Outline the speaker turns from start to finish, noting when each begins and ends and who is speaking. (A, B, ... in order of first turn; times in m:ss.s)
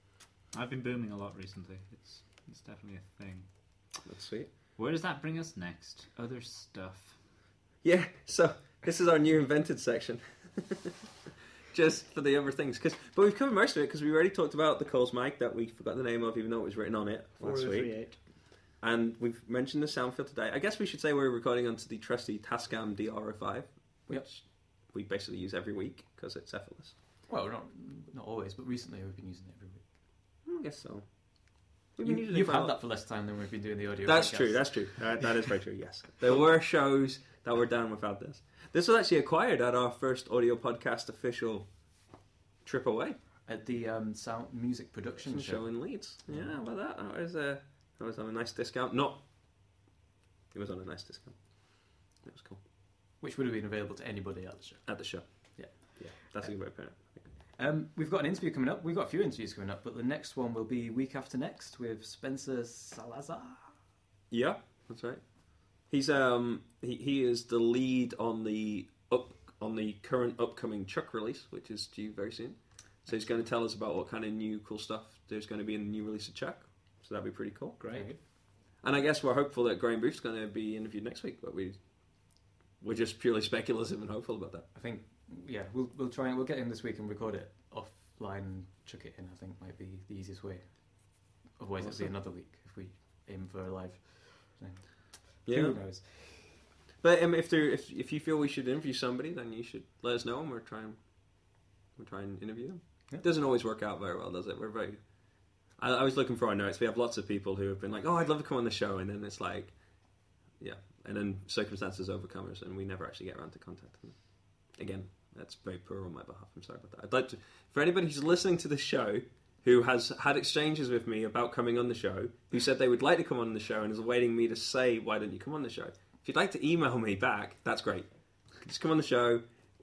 0:00.5-0:04.0 A
0:04.0-0:04.5 B
0:04.8-0:07.2 A
0:07.8-0:11.1 B
0:11.7-0:27.0 B
0:17.4-0:18.2 A
0:27.3-0:29.9 C
0:30.4-0:32.8 B
0:32.0-0:35.3 C
0:34.0-0:43.2 B
0:43.4-0:46.6 C
0:45.2-0:49.8 B
0:50.5-0:52.6 B
0:53.2-1:03.8 C
0:54.9-0:57.3 B
1:04.3-1:24.7 B
1:17.8-1:18.1 A
1:17.9-1:18.2 C
1:24.7-1:36.4 C
1:31.8-1:32.2 B
1:35.5-1:36.5 B
1:37.0-2:09.4 B